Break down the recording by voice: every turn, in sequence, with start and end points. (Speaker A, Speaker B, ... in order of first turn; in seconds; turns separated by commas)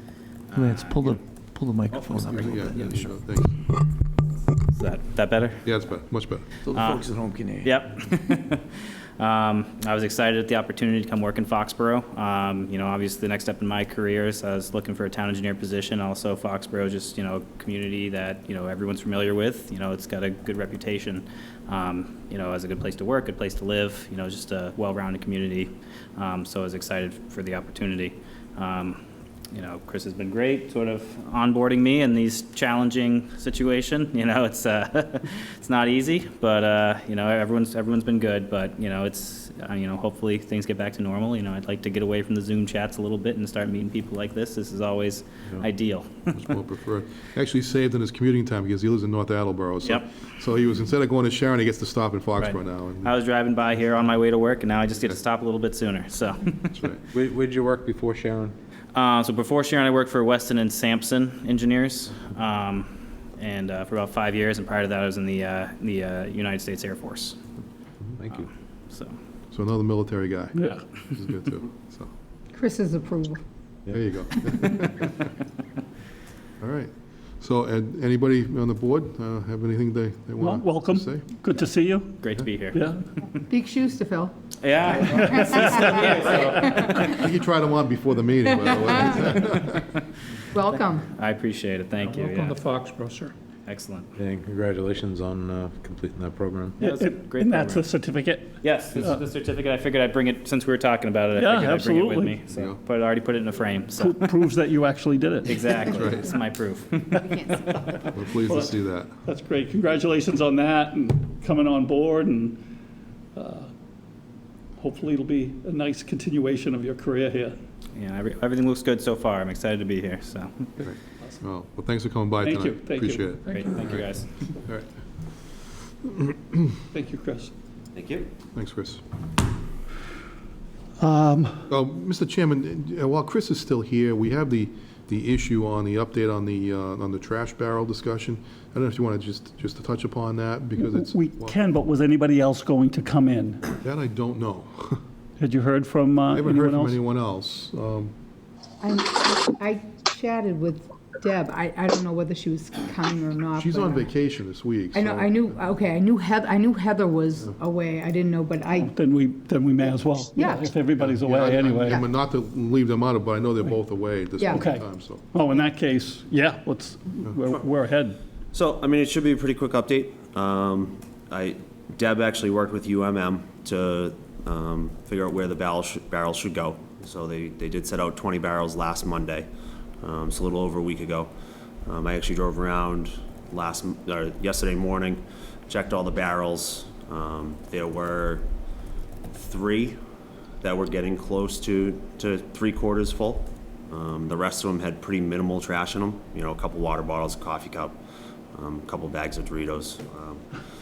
Speaker A: 0.5-1.2, Speaker B: 0.6-3.3, Speaker A: 1.9-2.5, Speaker C: 2.2-3.6, Speaker A: 4.7-5.8, Speaker C: 5.6-6.6, Speaker B: 6.7-7.7, Speaker A: 6.7-7.0, Speaker A: 7.6-8.7, Speaker A: 9.2-29.0, Speaker A: 29.5-46.1, Speaker C: 46.3-53.1, Speaker A: 52.4-56.8, Speaker C: 56.7-57.0, Speaker D: 57.1-58.5, Speaker A: 59.0-67.4, Speaker D: 68.1-68.5, Speaker A: 68.3-69.1, Speaker C: 69.5-72.1, Speaker E: 72.5-73.4, Speaker C: 73.9-75.1, Speaker C: 76.6-81.2, Speaker F: 80.4-82.2, Speaker A: 82.2-83.0, Speaker F: 82.7-83.0, Speaker E: 83.5-84.3, Speaker A: 84.6-87.2, Speaker E: 85.1-86.0, Speaker F: 85.7-86.1, Speaker C: 86.9-89.9, Speaker E: 90.5-91.1, Speaker A: 90.7-92.6, Speaker F: 92.5-93.3, Speaker A: 93.7-94.1, Speaker D: 94.2-96.8, Speaker A: 96.8-97.8, Speaker F: 96.8-99.2, Speaker A: 98.6-104.3, Speaker F: 101.4-102.4, Speaker F: 104.0-106.0, Speaker A: 105.5-107.3, Speaker C: 105.9-106.3, Speaker E: 107.2-108.0, Speaker C: 108.1-109.1, Speaker F: 108.3-112.6, Speaker F: 113.4-113.7, Speaker F: 114.8-117.6, Speaker A: 117.9-120.6, Speaker C: 120.8-124.0, Speaker F: 122.4-123.7, Speaker A: 123.5-124.3, Speaker C: 124.6-124.9, Speaker C: 126.1-126.6, Speaker F: 126.9-127.5, Speaker G: 128.0-128.3, Speaker C: 128.6-129.0, Speaker F: 131.0-131.7, Speaker C: 131.7-141.6, Speaker F: 140.8-143.6, Speaker C: 143.8-145.0, Speaker F: 145.4-147.0, Speaker C: 146.3-148.1, Speaker E: 148.8-154.1, Speaker C: 153.6-155.7, Speaker E: 154.9-158.9, Speaker F: 158.7-162.0, Speaker E: 160.3-160.7, Speaker C: 161.0-165.2, Speaker F: 164.5-168.2, Speaker G: 168.5-179.5, Speaker G: 180.0-181.3, Speaker G: 181.9-188.5, Speaker G: 189.3-190.0, Speaker G: 190.6-198.0, Speaker G: 198.5-200.4